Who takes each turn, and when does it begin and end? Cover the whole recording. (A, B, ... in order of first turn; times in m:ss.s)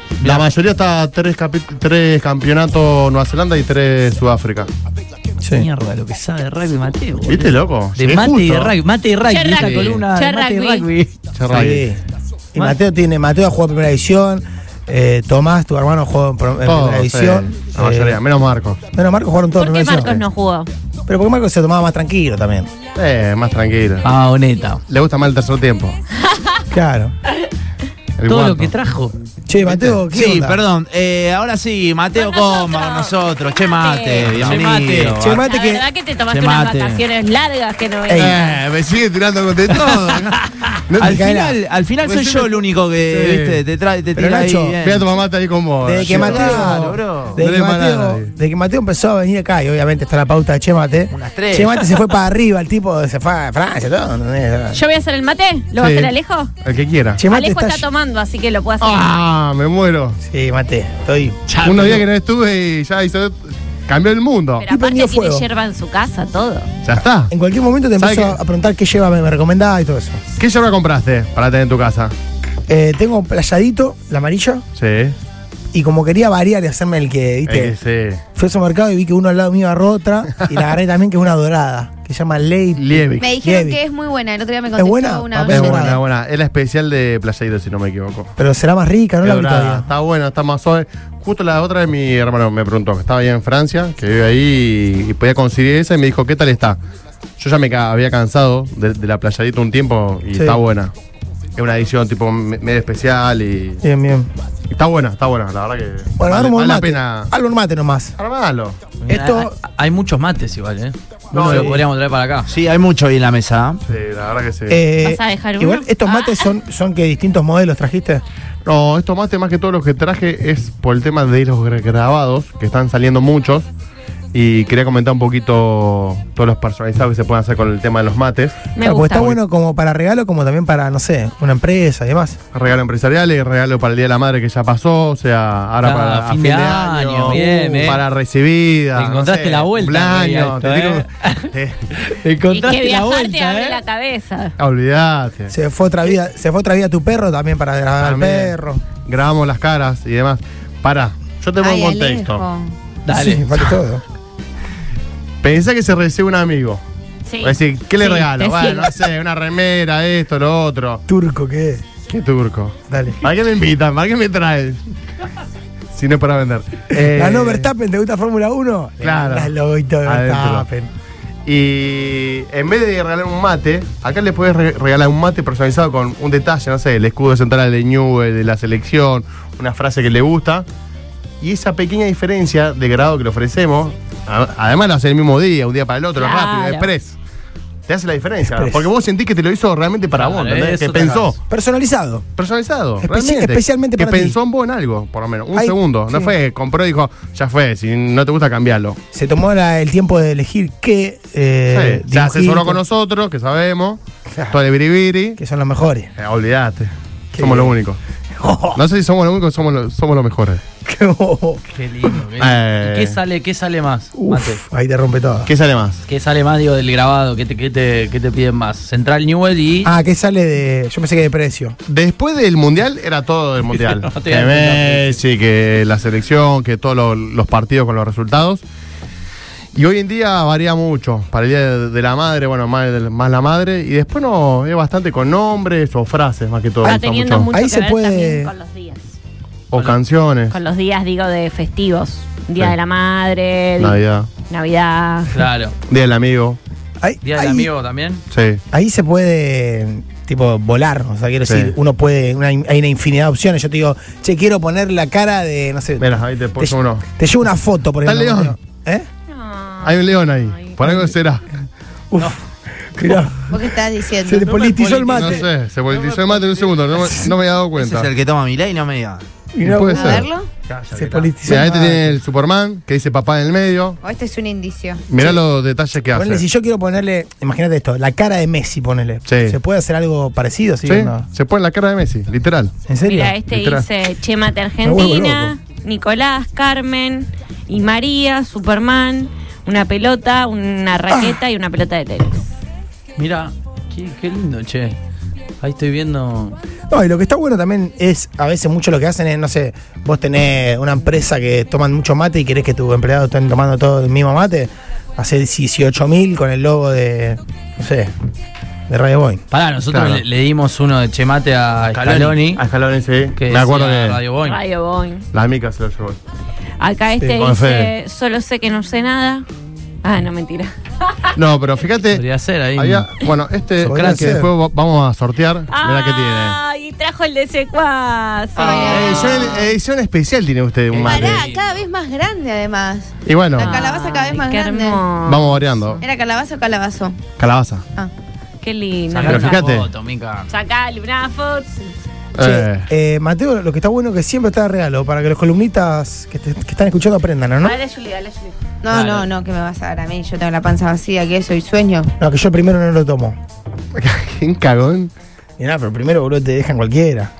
0:00.2-0:04.7 A
0:05.5-0:11.7 B
0:07.2-0:08.8 A
0:09.3-0:10.9 C
0:09.6-0:10.0 A
0:11.4-0:11.8 A
0:11.5-0:12.0 D
0:12.5-0:18.2 D
0:16.6-0:18.8 A
0:18.9-0:20.1 D
0:19.6-0:20.7 C
0:21.1-0:22.7 D
0:22.9-0:24.1 A
0:24.0-0:24.8 B
0:24.9-0:26.0 A
0:26.7-0:27.1 D
0:28.2-0:28.7 A
0:28.2-0:29.1 B
0:29.5-0:30.6 D
0:29.6-0:30.0 A
0:30.0-0:35.4 E
0:32.2-0:34.3 C
0:34.2-0:34.6 A
0:34.3-0:35.2 B
0:35.2-0:35.8 D
0:35.3-0:38.5 C
0:36.3-0:37.0 E
0:38.1-0:38.4 D
0:38.1-0:41.2 A
0:39.9-0:40.4 B
0:41.0-0:41.6 D
0:41.0-0:45.1 E
0:42.0-0:43.6 A
0:44.2-0:44.8 D
0:44.8-0:48.3 A
0:45.8-0:54.8 D
0:46.0-0:47.4 E
0:51.1-0:52.0 E
0:54.7-0:56.5 C
0:55.8-0:57.2 A
0:57.2-0:57.8 D
0:57.2-0:59.0 C
0:58.8-1:00.2 A
1:00.2-1:01.4 D
1:01.5-1:02.0 B
1:01.6-1:04.7 A
1:04.6-1:06.7 C
1:04.7-1:05.4 D
1:06.8-1:07.3 A
1:07.3-1:10.2 D
1:08.0-1:08.4 A
1:10.4-1:12.1 A
1:12.7-1:14.6 D
1:14.7-1:15.2 A
1:15.7-1:17.7 D
1:17.4-1:18.2 A
1:18.4-1:23.8 D
1:22.8-1:23.3 A
1:23.2-1:26.0 F
1:24.8-1:26.0 D
1:25.5-1:28.3 A
1:28.4-1:29.9 D
1:29.2-1:36.8 A
1:37.4-1:40.9 A
1:40.3-1:40.6 D
1:41.6-1:43.8 A
1:43.8-1:44.3 D
1:44.7-1:47.3 A
1:46.2-1:48.1 D
1:48.2-1:48.8 A
1:49.0-1:52.5 B
1:49.1-1:49.5 D
1:51.3-1:51.8 A
1:51.4-1:51.8 D
1:52.4-1:53.8 E
1:53.8-1:54.8 A
1:54.7-1:58.2 D
1:55.0-1:56.5 C
1:58.6-2:03.7 A
2:04.3-2:08.6 A
2:08.7-2:09.4 C
2:08.8-2:12.4 D
2:12.5-2:21.9 A
2:15.8-2:18.0 B
2:17.3-2:17.6 D
2:18.9-2:23.8 B
2:22.5-2:24.5 C
2:24.6-2:25.5 A
2:25.5-2:28.8 D
2:28.0-2:32.4 A
2:31.6-2:32.7 F
2:33.1-2:33.7 B
2:33.1-2:34.0 D
2:35.4-2:36.8 A
2:37.2-2:38.9 C
2:37.4-2:41.0 A
2:41.1-2:41.8 D
2:42.1-2:44.8 A
2:42.9-2:43.2 D
2:45.9-2:47.7 A
2:46.9-2:50.9 D
2:49.0-2:50.7 A
2:51.4-3:00.7 A
3:01.4-3:07.2 A
3:06.2-3:06.9 C
3:07.9-3:11.4 A
3:08.5-3:08.8 D
3:10.1-3:11.4 B
3:11.5-3:12.2 D
3:12.4-3:19.0 A
3:13.0-3:14.4 D
3:15.5-3:16.3 D
3:19.1-3:22.8 D
3:21.7-3:25.4 A
3:24.3-3:24.6 D
3:25.4-3:26.1 D
3:26.2-3:28.0 A
3:27.3-3:27.8 D
3:28.4-3:28.8 D
3:28.7-3:30.6 A
3:30.8-3:31.6 D
3:31.7-3:34.6 B
3:32.4-3:33.2 A
3:34.2-3:35.5 D
3:35.4-3:36.0 A
3:36.1-3:39.9 B
3:39.8-3:41.8 D
3:41.9-3:48.6 A
3:43.7-3:45.2 B
3:49.7-3:57.5 A
3:56.8-3:58.5 D
3:56.8-3:59.1 C
3:59.7-4:00.6 A
4:00.5-4:04.0 C
4:03.8-4:04.3 A
4:04.5-4:05.4 C
4:05.3-4:05.7 B
4:05.9-4:06.6 A
4:07.0-4:07.7 D
4:07.2-4:08.2 B
4:08.3-4:08.6 A
4:08.7-4:19.1 D
4:11.4-4:11.7 A
4:16.0-4:17.0 A
4:18.0-4:18.6 A
4:19.3-4:20.7 C
4:19.8-4:21.4 A
4:20.8-4:21.1 D
4:22.1-4:23.6 D
4:23.5-4:24.5 F
4:24.2-4:25.4 D
4:24.4-4:26.9 B
4:25.1-4:28.1 A
4:27.8-4:29.2 E
4:29.5-4:30.3 D
4:29.6-4:30.3 A
4:29.9-4:30.5 F
4:30.7-4:31.3 B
4:30.9-4:32.1 D
4:31.4-4:34.0 A
4:34.0-4:35.0 F
4:35.1-4:36.4 A
4:36.1-4:41.2 D
4:39.2-4:39.6 A
4:40.8-4:42.7 A
4:42.9-4:43.3 D
4:43.0-4:52.4 C
4:43.5-4:43.8 A
4:44.8-4:45.6 D
4:51.1-4:51.4 D
4:53.2-4:55.0 B
4:55.6-4:56.6 B
4:56.9-5:08.1 D
5:08.9-5:09.4 D
5:09.5-5:12.6 B
5:09.9-5:10.2 A
5:11.9-5:12.4 E
5:12.5-5:14.2 A
5:13.4-5:14.6 B
5:14.4-5:15.2 C
5:15.3-5:16.2 A
5:16.8-5:19.4 C
5:17.3-5:17.9 A
5:20.0-5:21.3 C
5:21.3-5:22.2 A
5:22.1-5:23.1 B
5:22.8-5:26.6 A
5:23.8-5:24.4 B
5:23.8-5:24.5 D
5:25.7-5:29.3 C
5:28.6-5:29.7 F
5:28.6-5:31.4 A
5:30.9-5:31.8 B
5:31.0-5:35.0 F
5:33.2-5:33.8 A
5:33.6-5:36.0 C
5:35.2-5:36.0 A
5:36.0-5:37.2 F
5:37.4-5:37.8 A
5:38.6-5:39.7 C
5:39.1-5:40.5 B
5:39.2-5:39.9 A
5:40.5-5:41.9 C
5:42.4-5:42.9 A
5:42.4-5:47.8 D
5:47.6-5:48.5 C
5:48.8-5:52.1 F
5:48.9-5:49.3 B
5:52.2-5:53.4 D
5:53.9-5:55.1 A
5:55.6-5:57.3 D